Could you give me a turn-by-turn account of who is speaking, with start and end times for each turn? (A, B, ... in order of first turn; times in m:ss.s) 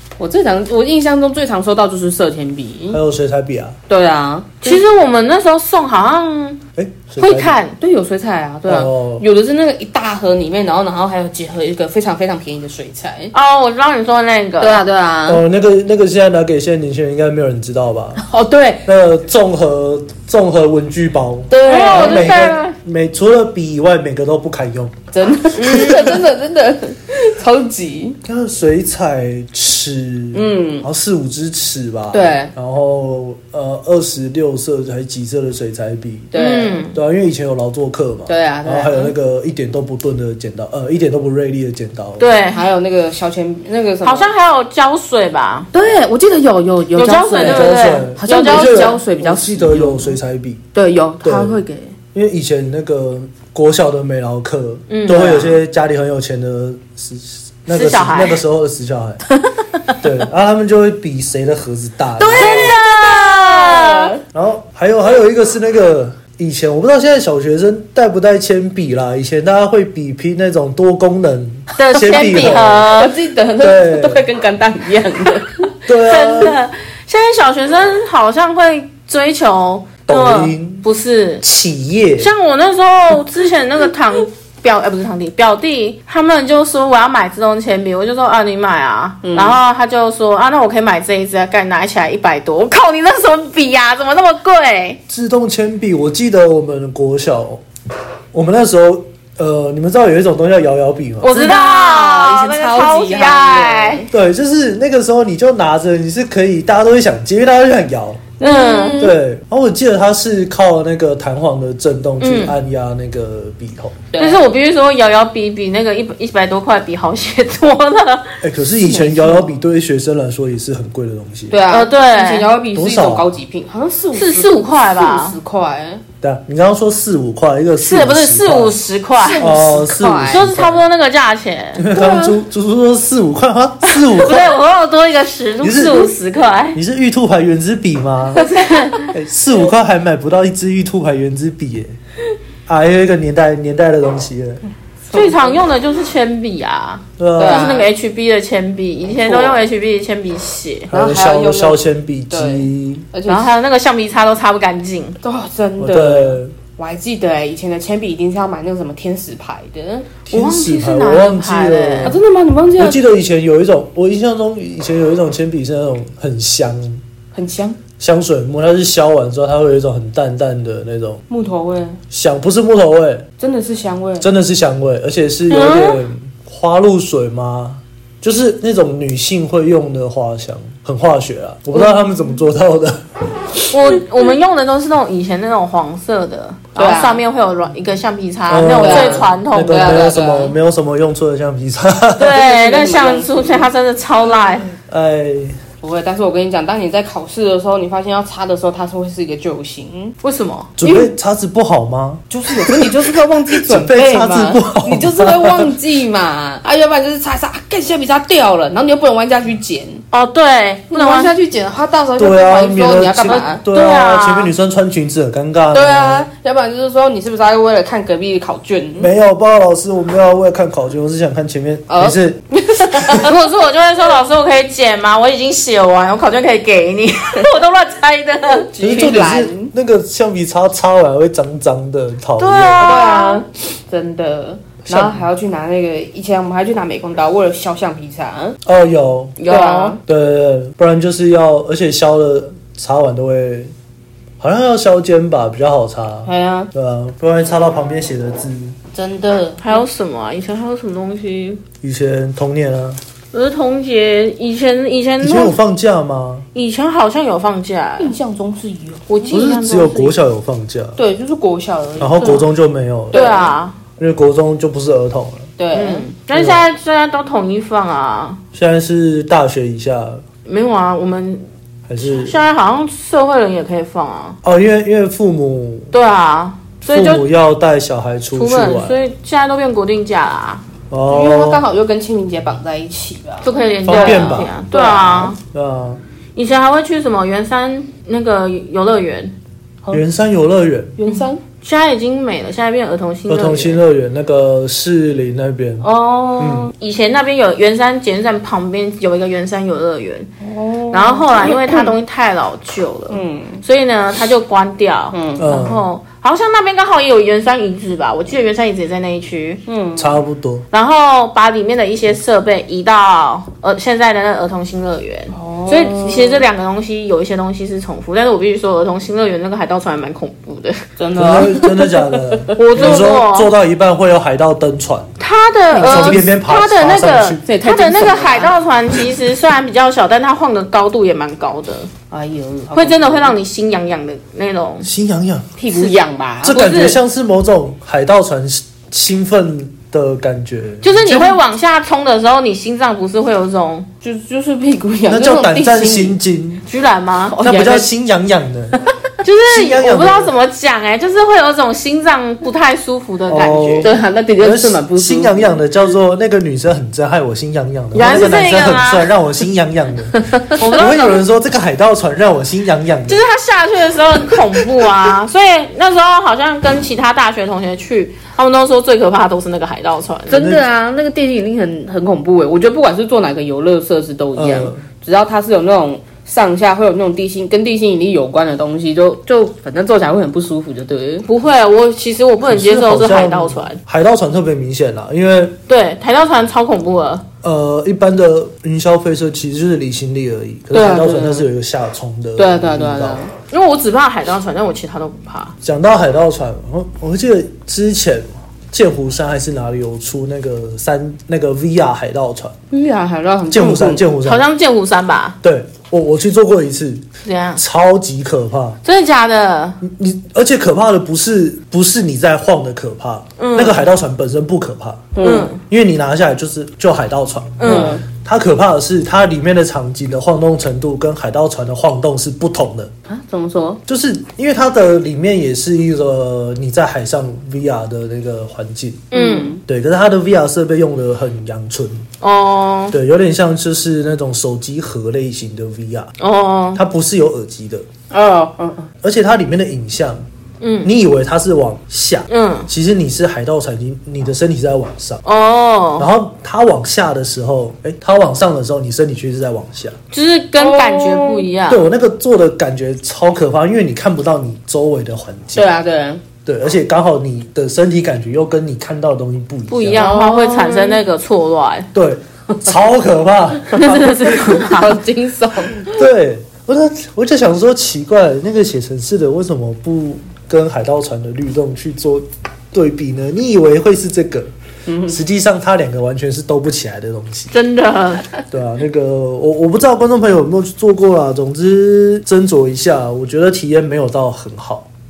0:00.2-0:03.0 A
0:02.9-0:03.8 B
0:03.9-0:04.8 A
0:04.6-0:06.6 C
0:06.8-0:07.6 B
0:07.2-0:07.8 C
0:07.8-0:13.3 A
0:08.7-0:09.2 B
0:13.3-0:14.8 C
0:14.6-0:15.4 A
0:15.3-0:18.3 B
0:18.2-0:18.8 A
0:18.8-0:25.0 B
0:21.5-0:22.5 A
0:21.6-0:22.8 C
0:25.1-0:28.2 A
0:25.6-0:26.1 C
0:25.6-0:25.9 B
0:28.2-0:36.3 B
0:30.3-0:30.9 A
0:32.1-0:32.5 A
0:36.3-0:36.9 A
0:36.3-0:37.0 C
0:36.9-0:42.3 B
0:38.3-0:39.1 A
0:42.2-0:42.6 C
0:42.5-0:44.3 A
0:44.0-0:45.7 C
0:45.7-0:50.2 A
0:47.0-0:49.0 C
0:47.4-0:50.6 B
0:50.7-0:52.0 A
0:51.2-0:51.6 B
0:52.1-0:59.2 B
0:54.9-0:55.6 C
0:55.2-0:55.4 A
0:57.7-0:58.4 C
1:00.0-1:02.8 B
1:02.2-1:04.2 A
1:02.3-1:04.2 C
1:04.3-1:12.9 B
1:11.8-1:13.2 C
1:12.1-1:15.7 A
1:13.6-1:14.2 B
1:15.8-1:16.6 B
1:15.9-1:21.4 C
1:20.1-1:20.8 B
1:21.4-1:22.3 B
1:22.2-1:35.0 C
1:29.2-1:29.6 A
1:35.1-1:37.6 B
1:38.3-1:41.4 B
1:41.2-1:44.1 C
1:41.3-1:44.1 A
1:44.1-1:48.3 B
1:48.4-1:49.1 C
1:48.4-1:49.2 A
1:49.0-1:54.0 B
1:52.2-1:52.5 C
1:54.1-1:54.4 A
1:54.2-1:58.4 C
1:58.4-2:01.6 B
1:58.8-1:59.6 A
2:01.5-2:06.0 A
2:01.7-2:02.5 C
2:02.7-2:03.3 B
2:04.2-2:05.4 C
2:06.2-2:08.8 B
2:07.8-2:09.5 C
2:09.2-2:10.5 A
2:09.4-2:10.8 B
2:10.3-2:11.8 C
2:11.8-2:14.6 B
2:11.9-2:12.4 A
2:13.9-2:16.8 C
2:15.6-2:16.1 B
2:16.7-2:18.4 B
2:18.3-2:19.1 C
2:18.4-2:19.1 A
2:19.1-2:22.0 B
2:22.7-2:24.6 B
2:25.1-2:25.6 A
2:25.1-2:30.9 C
2:27.2-2:27.8 B
2:27.4-2:27.9 A
2:29.1-2:29.7 A
2:30.9-2:33.1 B
2:30.9-2:33.5 A
2:33.3-2:35.2 C
2:35.2-2:40.1 A
2:35.8-2:36.6 B
2:40.3-2:42.2 B
2:40.3-2:42.2 C
2:42.0-2:43.0 A
2:42.8-2:47.0 B
2:47.3-2:47.8 A
2:48.0-2:51.2 B
2:51.3-2:52.0 A
2:52.1-2:53.3 B
2:53.4-2:54.3 A
2:54.2-3:03.0 B
2:55.5-2:56.0 C
3:03.7-3:10.2 C
3:06.8-3:07.2 A
3:08.5-3:12.4 B
3:08.7-3:10.6 A
3:12.2-3:14.7 C
3:12.3-3:13.7 A
3:14.8-3:15.6 B
3:15.8-3:20.2 A
3:20.2-3:20.7 C
3:20.8-3:25.7 B
3:20.8-3:21.1 A
3:22.3-3:30.0 A
3:30.1-3:31.3 C
3:30.9-3:33.6 A
3:32.2-3:36.3 B
3:33.3-3:34.5 C
3:35.7-3:39.1 A
3:39.0-3:43.2 B
3:41.9-3:43.3 A
3:43.2-3:48.8 C
3:48.7-3:49.7 A
3:48.8-3:52.9 B
3:52.4-3:53.4 C
3:52.8-3:58.6 A
3:54.8-3:55.2 B
3:58.6-3:59.4 B
3:59.4-4:00.0 C
3:59.5-4:00.0 A
4:00.1-4:03.7 B
4:04.4-4:08.8 B
4:06.3-4:06.7 A
4:08.9-4:09.8 A
4:09.6-4:11.6 C
4:11.8-4:13.0 B
4:13.3-4:15.6 C
4:15.2-4:16.5 B
4:16.5-4:18.1 C
4:18.0-4:19.3 A
4:19.1-4:20.2 C
4:19.3-4:21.0 B
4:21.0-4:22.5 A
4:22.0-4:23.2 B
4:23.1-4:23.5 A
4:23.1-4:23.8 C
4:24.0-4:25.5 B
4:25.6-4:26.1 A
4:25.7-4:28.4 C
4:26.3-4:26.6 B
4:28.5-4:30.2 B
4:30.5-4:31.4 C
4:31.9-4:32.4 B
4:32.0-4:34.4 C
4:34.4-4:35.9 B
4:35.9-4:37.3 C
4:36.9-4:39.0 B
4:38.3-4:40.6 C
4:40.9-4:41.6 B
4:41.1-4:45.4 A
4:43.4-4:45.4 C
4:43.9-4:44.6 B
4:45.4-4:46.0 B
4:46.4-4:49.3 C
4:49.9-4:51.0 B
4:51.0-4:51.4 A
4:51.6-4:53.8 C
4:53.3-4:55.9 B
4:55.8-4:56.7 A
4:56.4-4:56.7 B
4:56.8-5:00.3 C
5:00.4-5:02.0 A
5:00.9-5:09.6 C
5:03.1-5:03.6 A
5:05.1-5:05.5 A
5:05.4-5:05.8 B
5:09.7-5:10.2 A
5:10.0-5:10.7 B
5:10.7-5:20.9 C
5:15.3-5:16.4 A
5:21.0-5:22.6 A
5:21.2-5:25.1 B
5:22.6-5:23.5 C
5:25.2-5:31.9 C
5:25.7-5:26.3 A
5:25.8-5:27.4 B
5:27.5-5:28.6 A
5:32.1-5:33.4 A
5:32.7-5:34.9 C
5:34.8-5:35.5 B
5:35.6-5:36.6 A
5:35.7-5:37.0 C
5:36.4-5:41.4 B
5:40.8-5:43.9 C
5:44.0-5:46.2 A
5:45.1-5:46.6 B
5:46.7-5:47.4 C
5:47.3-5:47.9 A
5:47.4-5:48.8 B
5:49.2-5:53.9 C
5:49.5-5:50.3 B
5:53.3-6:03.2 B
5:53.8-5:55.6 A
5:57.9-5:59.1 C
6:00.6-6:01.2 C
6:03.1-6:10.6 C
6:10.3-6:21.3 A
6:10.3-6:10.6 B
6:14.4-6:14.9 B
6:21.3-6:23.8 C
6:22.5-6:25.6 B
6:25.7-6:27.2 C
6:27.4-6:33.2 B
6:30.7-6:31.5 A
6:32.4-6:33.3 A
6:33.5-6:35.6 C
6:35.6-6:42.6 B
6:42.7-6:44.0 A
6:43.5-6:44.4 B
6:44.2-6:45.4 C
6:45.4-6:47.0 B
6:47.2-6:47.6 C
6:47.6-6:48.8 B
6:48.8-6:49.8 C
6:49.8-7:02.9 B
6:53.4-6:53.8 C
6:55.2-6:55.5 A
6:55.2-6:55.6 C
6:57.6-6:58.0 C
6:57.6-6:58.0 A
7:03.1-7:03.8 A
7:03.9-7:09.1 B
7:09.1-7:09.6 C
7:09.1-7:09.6 A
7:09.6-7:12.1 B
7:12.2-7:12.9 C
7:12.9-7:16.1 B
7:16.2-7:16.8 C
7:16.8-7:17.9 B
7:18.1-7:18.9 A
7:19.0-7:20.2 B
7:20.6-7:20.9 C
7:20.8-7:25.2 B
7:22.3-7:22.7 C
7:25.2-7:26.1 C
7:26.0-7:30.0 B
7:30.1-7:31.8 C
7:30.6-7:31.5 A
7:31.7-7:35.6 B
7:35.6-7:36.2 A
7:36.4-7:40.1 B
7:39.7-7:41.9 C
7:40.0-7:41.0 A
7:41.9-7:44.1 B
7:43.7-7:45.0 C
7:43.8-7:46.0 A
7:45.8-7:54.5 B
7:54.9-7:55.2 A
7:55.0-7:57.5 B
7:57.5-7:58.3 C
7:58.5-8:04.9 B